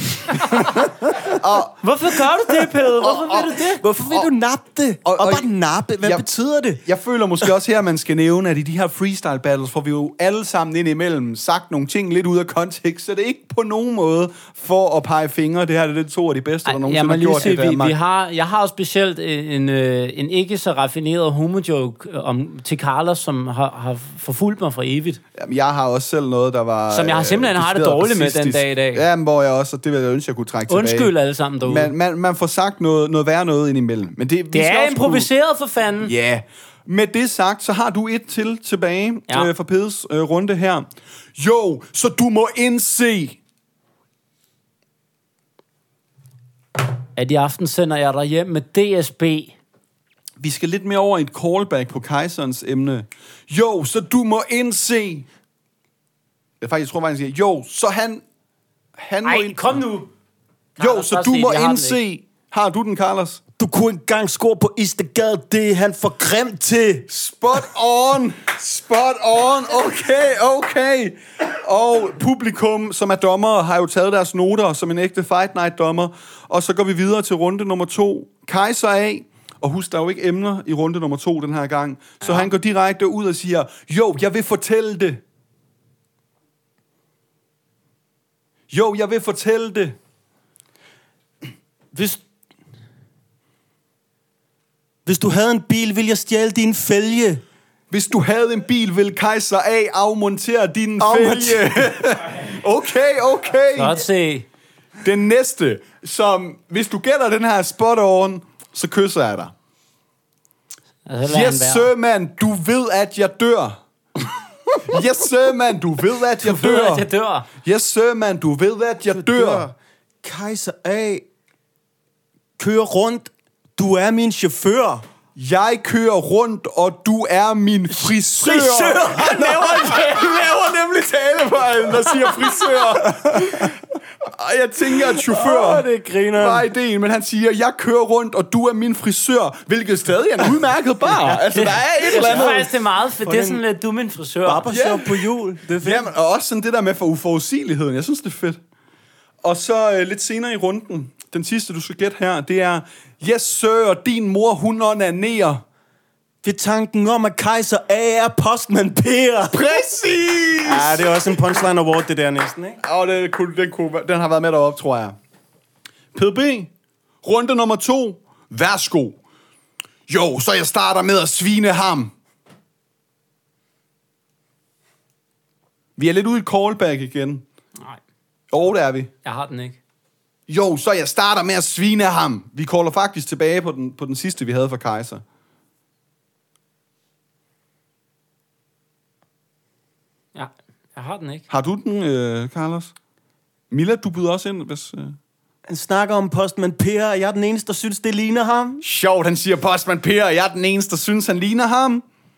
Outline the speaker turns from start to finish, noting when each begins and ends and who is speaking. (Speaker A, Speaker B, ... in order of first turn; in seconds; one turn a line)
Speaker A: 0.2-1.8
Speaker B: 1.8-3.8
Speaker A: 3.0-3.5
Speaker C: 3.8-6.8
Speaker A: 5.0-5.5
Speaker A: 6.0-17.9
Speaker B: 16.6-25.2
Speaker A: 25.4-31.1
Speaker B: 26.9-29.0
Speaker B: 30.7-31.9
Speaker A: 31.6-35.3
Speaker B: 34.5-36.1
Speaker A: 36.0-43.4
Speaker B: 47.1-49.5
Speaker A: 50.4-55.3
Speaker A: 56.6-58.2
Speaker A: 59.0-59.8
Speaker B: 59.2-60.1
Speaker B: 60.8-62.0
Speaker A: 60.8-63.4
Speaker C: 63.6-67.1
Speaker A: 67.1-85.2
Speaker A: 88.7-90.0
Speaker C: 91.9-92.2
Speaker C: 95.0-97.4
Speaker A: 97.9-104.0
Speaker C: 101.0-101.7
Speaker B: 103.8-104.5
Speaker A: 105.0-109.5
Speaker B: 111.0-111.9
Speaker A: 111.2-117.0
Speaker B: 116.4-117.5
Speaker A: 117.6-119.7
Speaker C: 119.1-121.2
Speaker C: 122.6-125.0
Speaker A: 125.3-142.7
Speaker C: 127.9-130.5
Speaker C: 132.2-133.7
Speaker C: 135.1-136.7
Speaker B: 141.5-144.7
Speaker C: 142.1-142.5
Speaker C: 143.2-143.6
Speaker C: 144.4-146.1
Speaker A: 144.7-145.3
Speaker A: 145.8-148.6
Speaker A: 149.4-155.6
Speaker C: 156.4-159.7
Speaker A: 159.5-161.3
Speaker C: 160.6-162.8
Speaker A: 162.8-165.2
Speaker A: 166.1-166.7
Speaker A: 167.2-169.2
Speaker A: 170.1-172.1
Speaker A: 176.0-177.4
Speaker A: 178.5-179.1
Speaker B: 179.2-179.8
Speaker A: 180.5-185.2
Speaker B: 190.3-191.4
Speaker A: 191.5-192.9
Speaker A: 193.7-195.2
Speaker C: 195.7-198.8
Speaker A: 198.8-202.0